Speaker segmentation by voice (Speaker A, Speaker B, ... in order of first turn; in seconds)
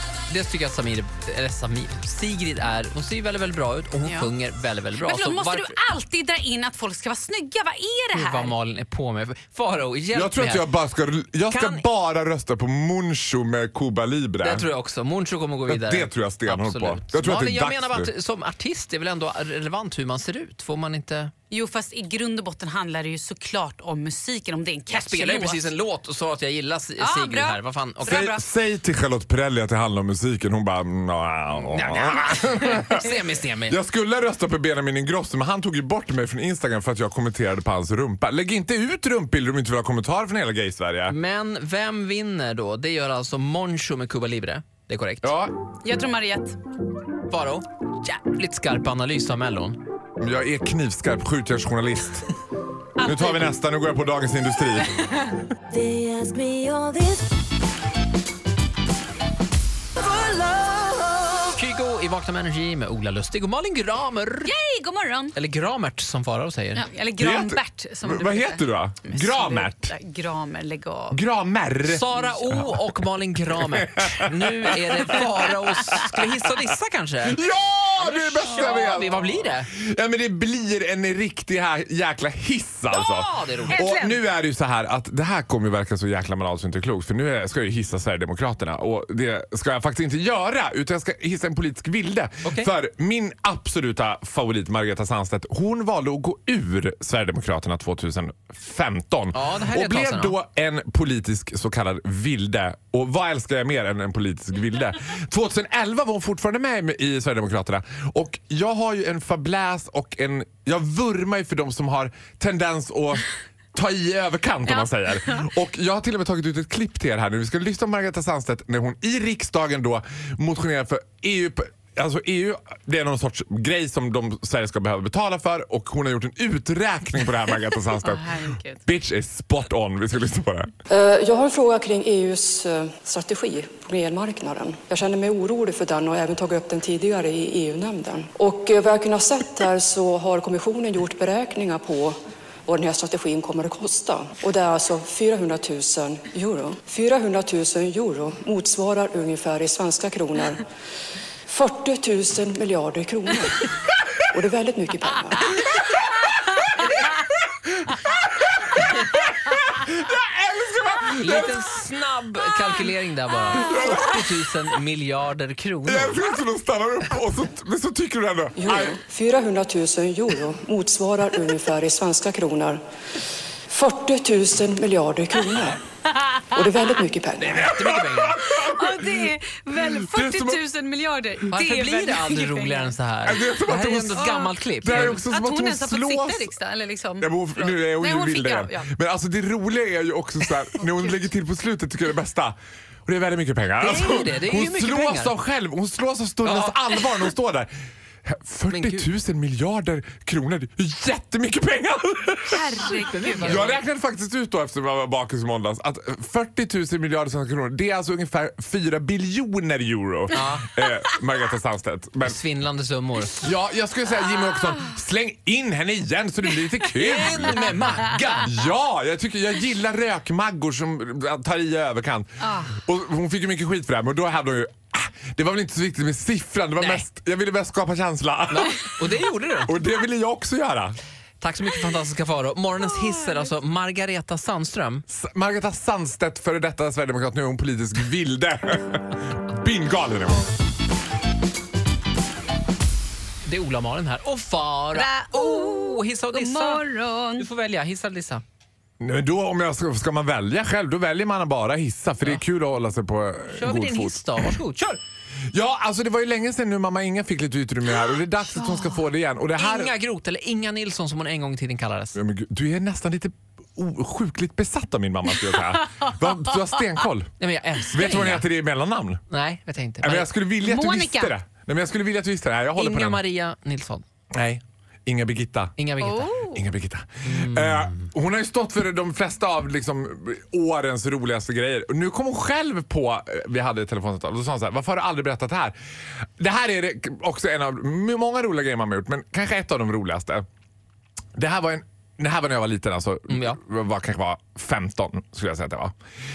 Speaker A: 0.3-5.8, 8.1-10.7, 11.5-11.8, 14.4-21.3, 24.9-28.2, 31.7-33.8, 41.1-45.4, 47.3-49.8, 61.5-64.5, 65.3-66.9, 71.8-77.4, 78.0-79.7, 82.9-83.9, 92.5-92.7, 99.3-100.4, 156.8-157.1, 161.2-166.2, 177.4-178.4, 181.5-185.2, 193.8-195.3, 196.4-197.0, 198.7-199.1, 202.8-203.8, 210.3-210.7, 212.2-213.5, 217.0-218.5, 226.8-227.1, 228.5-229.7, 231.4-235.1, 243.4-246.8, 247.4-248.4, 253.5-255.0, 259.6-262.2, 267.4-268.5, 269.3-270.3, 272.8-274.1, 275.8-276.4, 277.2-278.1, 293.3-293.6
Speaker B: 4.0-4.3, 5.0-8.6, 21.5-25.7, 27.0-28.4, 45.8-46.6, 64.5-65.3, 66.8-71.2, 83.7-84.2, 128.0-128.8, 178.6-182.9, 184.1-188.9, 202.5-203.7, 222.4-222.7, 244.9-247.4, 270.6-271.3, 276.0-276.6
Speaker C: 10.1-14.7, 15.7-18.1, 28.1-33.1, 33.7-41.2, 45.2-45.5, 50.2-52.3, 53.0-54.9, 67.2-69.9, 71.1-72.8, 73.5-76.5, 77.2-130.7, 157.9-161.6, 163.5-164.3, 165.8-169.0, 177.5-180.6, 183.2-186.5, 187.2-197.7, 198.2-202.9, 203.4-212.4, 213.4-228.8, 229.7-231.0, 235.1-240.5, 249.0-254.6, 255.5-259.9, 262.1-267.3, 267.9-269.2, 270.0-273.2, 274.3-275.7, 276.4-285.8, 286.4-290.4, 291.4-295.9
Speaker D: 55.7-57.3, 60.1-61.4
Speaker E: 130.9-150.6, 151.5-153.7, 154.3-155.8, 168.6-172.8, 173.7-175.8, 176.4-177.7